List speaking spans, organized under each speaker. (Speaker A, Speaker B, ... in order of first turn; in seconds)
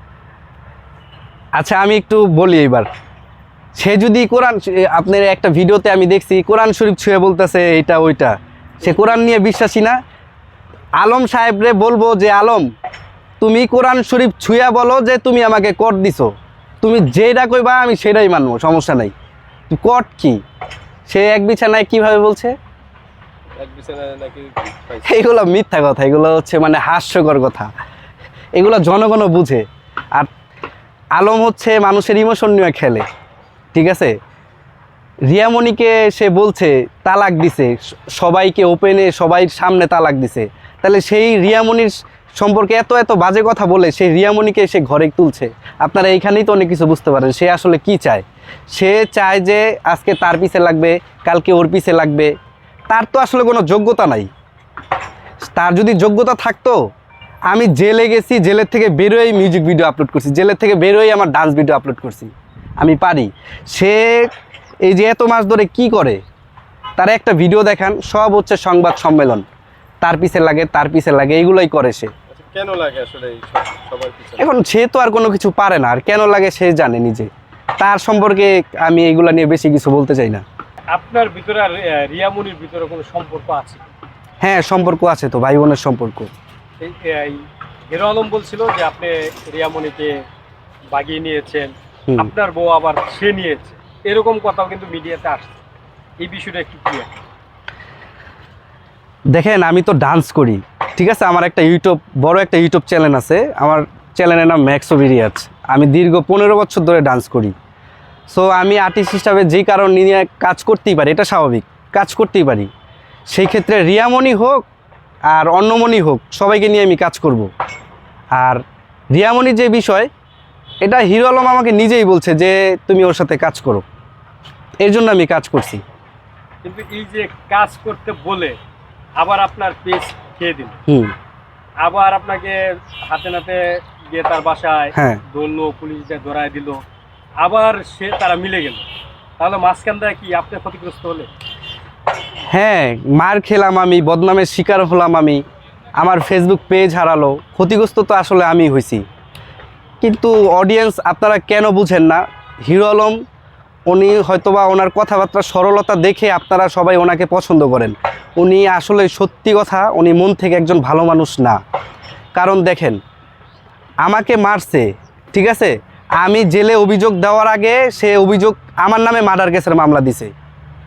Speaker A: 1.6-2.9, 3.8-10.0, 11.0-12.7, 13.4-19.1, 19.7-20.4, 21.1-22.5, 25.0-27.7, 28.5-30.3, 31.1-33.0, 33.7-34.1, 35.3-52.3, 52.9-54.3, 55.5-56.8, 57.5-64.3, 64.8-66.2, 67.0-69.4, 70.0-72.1, 74.4-80.4, 84.4-86.3, 99.3-107.5, 108.3-112.7, 113.3-114.7, 115.3-117.5, 118.3-120.1, 120.8-123.8, 124.8-125.8, 130.9-131.1, 134.9-135.2, 142.5-145.4, 146.0-149.0, 150.0-153.2, 153.9-161.6, 162.3-163.0, 164.0-170.3
Speaker B: 23.6-25.2, 72.3-74.4
Speaker C: 80.9-83.9, 86.8-90.2, 90.9-95.6, 96.2-97.1, 126.6-128.6, 129.2-130.8, 131.8-136.8, 137.4-138.8, 139.4-141.3